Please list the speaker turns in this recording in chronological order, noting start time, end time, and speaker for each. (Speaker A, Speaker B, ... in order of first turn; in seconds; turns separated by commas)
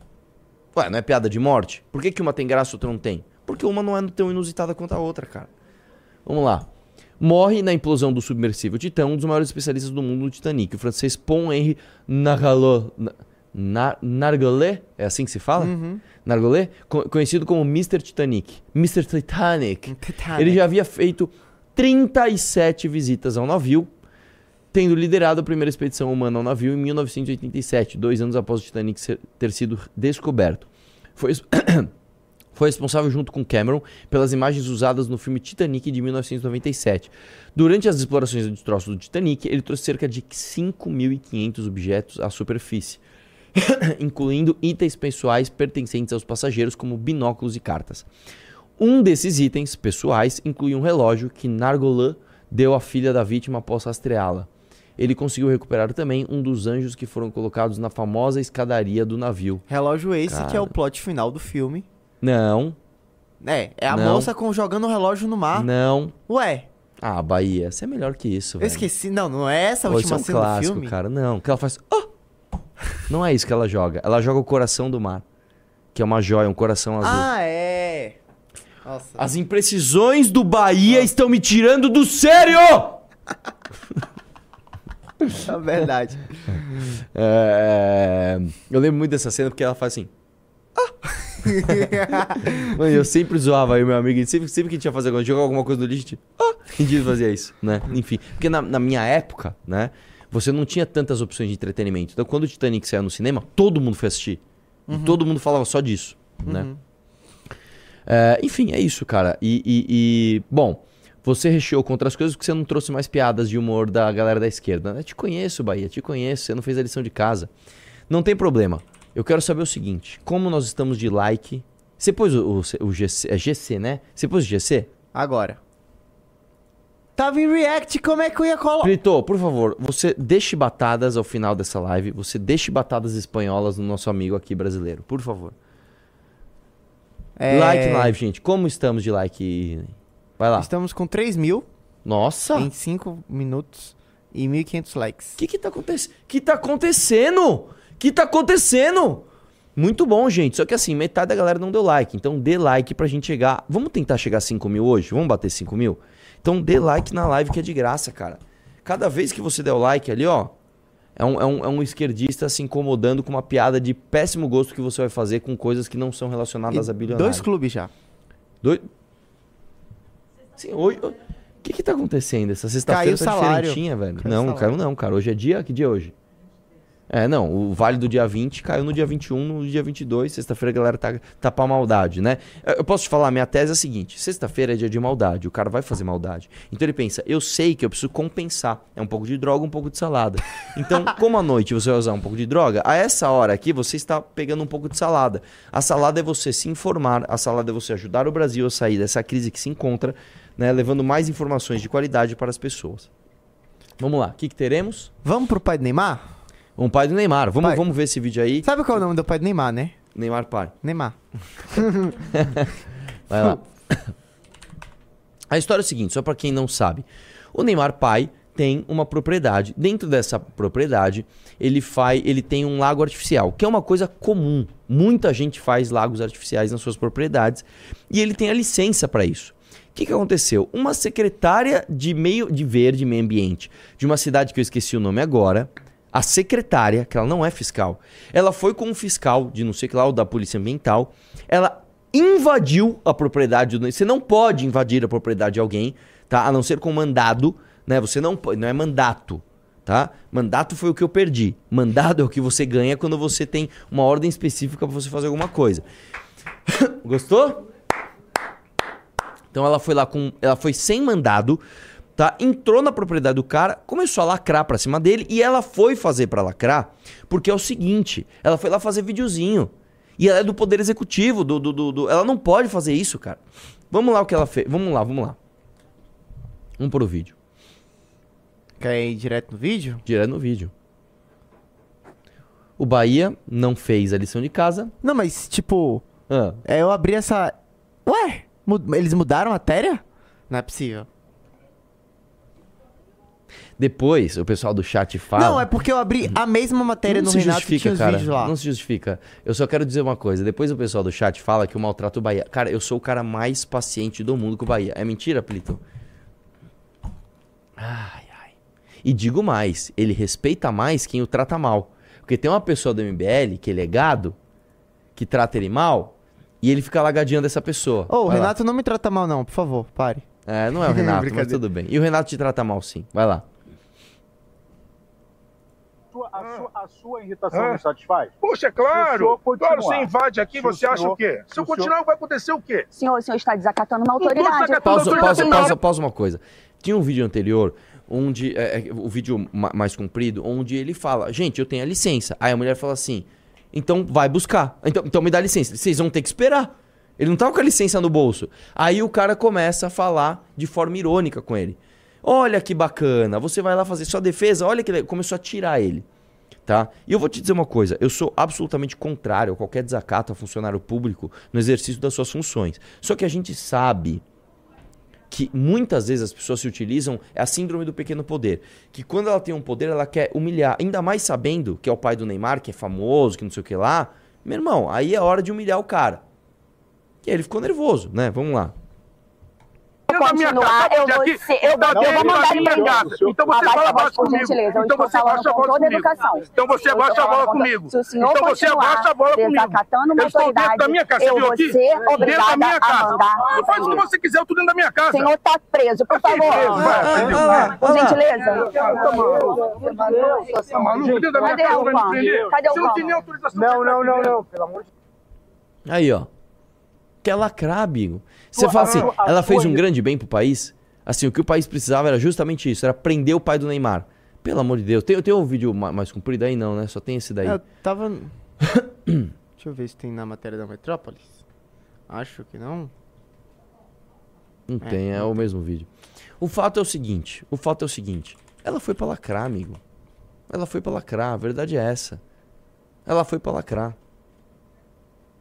Speaker A: 0.7-5.5, Speaker A: 6.2-6.7, Speaker A: 7.2-23.9, Speaker B: 15.6-16.0, Speaker B: 19.9-20.6, Speaker A: 24.7-31.9, Speaker A: 32.5-43.0, Speaker A: 43.5-48.1, Speaker A: 48.8-59.6, Speaker B: 59.7-61.9, Speaker A: 60.2-60.7, Speaker A: 62.2-62.8, Speaker B: 63.4-65.7, Speaker A: 63.9-64.3, Speaker A: 65.5-66.1, Speaker B: 66.2-66.7, Speaker A: 67.0-68.9, Speaker B: 68.6-70.9, Speaker A: 69.8-72.1, Speaker A: 73.1-75.2, Speaker A: 75.9-77.3, Speaker B: 77.0-78.2, Speaker B: 78.8-79.2, Speaker A: 79.2-83.0, Speaker B: 85.4-86.9, Speaker A: 87.0-90.1, Speaker B: 90.9-92.7, Speaker A: 91.7-106.7, Speaker B: 104.9-105.2, Speaker B: 106.4-106.8, Speaker A: 108.0-117.5, Speaker A: 118.1-124.9, Speaker B: 125.1-125.6, Speaker B: 127.2-128.9, Speaker A: 128.8-135.5, Speaker B: 137.4-138.1, Speaker A: 137.5-140.7, Speaker B: 140.6-141.7, Speaker A: 142.0-142.7, Speaker B: 142.5-145.4, Speaker A: 145.4-160.5, Speaker A: 161.2-167.5, Speaker B: 166.7-167.9, Speaker A: 168.6-168.9, Speaker A: 170.5-176.1, Speaker B: 172.8-174.8, Speaker A: 177.1-203.1, Speaker A: 204.0-205.1, Speaker B: 205.2-206.2, Speaker A: 206.8-208.7, Speaker B: 208.6-210.0, Speaker A: 210.1-210.7, Speaker B: 210.8-211.2, Speaker B: 211.7-212.3, Speaker A: 212.0-212.7, Speaker A: 213.3-214.1, Speaker A: 215.5-255.8, Speaker A: 256.7-257.6, Speaker A: 259.5-261.6, Speaker A: 262.1-275.4, Speaker A: 276.8-277.3, Speaker B: 278.8-280.0, Speaker A: 280.1-280.7, Speaker A: 282.8-284.9, Speaker B: 285.0-286.0, Speaker A: 286.3-286.6, Speaker B: 286.6-287.5, Speaker B: 288.1-291.1, Speaker A: 293.8-295.7, Speaker B: 295.3-298.5, Speaker A: 297.1-305.8, Speaker A: 307.8-314.4, Speaker A: 315.1-318.5, Speaker B: 318.1-320.2, Speaker A: 320.4-323.4, Speaker B: 320.8-321.6, Speaker C: 326.1-328.3, Speaker D: 327.5-327.8, Speaker D: 328.4-332.9, Speaker C: 328.9-331.9, Speaker E: 332.9-335.7, Speaker D: 334.2-335.7, Speaker A: 334.8-356.1, Speaker A: 356.7-364.2, Speaker A: 365.3-376.2, Speaker A: 377.2-378.7, Speaker E: 380.1-394.0, Speaker D: 380.1-395.3, Speaker C: 381.9-383.4, Speaker E: 395.1-397.1, Speaker D: 396.1-397.7, Speaker C: 396.5-397.9, Speaker A: 396.8-398.3, Speaker E: 397.7-400.0, Speaker C: 398.4-402.9, Speaker D: 398.5-404.4, Speaker E: 401.2-403.2, Speaker C: 403.5-404.8, Speaker A: 405.9-406.3, Speaker A: 407.2-417.6, Speaker C: 408.5-409.8, Speaker D: 408.7-409.1, Speaker B: 417.4-418.3, Speaker A: 418.7-419.3, Speaker B: 419.6-421.4, Speaker B: 422.1-422.9, Speaker A: 424.7-425.9, Speaker B: 424.8-425.4, Speaker A: 426.4-429.8, Speaker A: 430.5-432.2, Speaker A: 433.1-433.9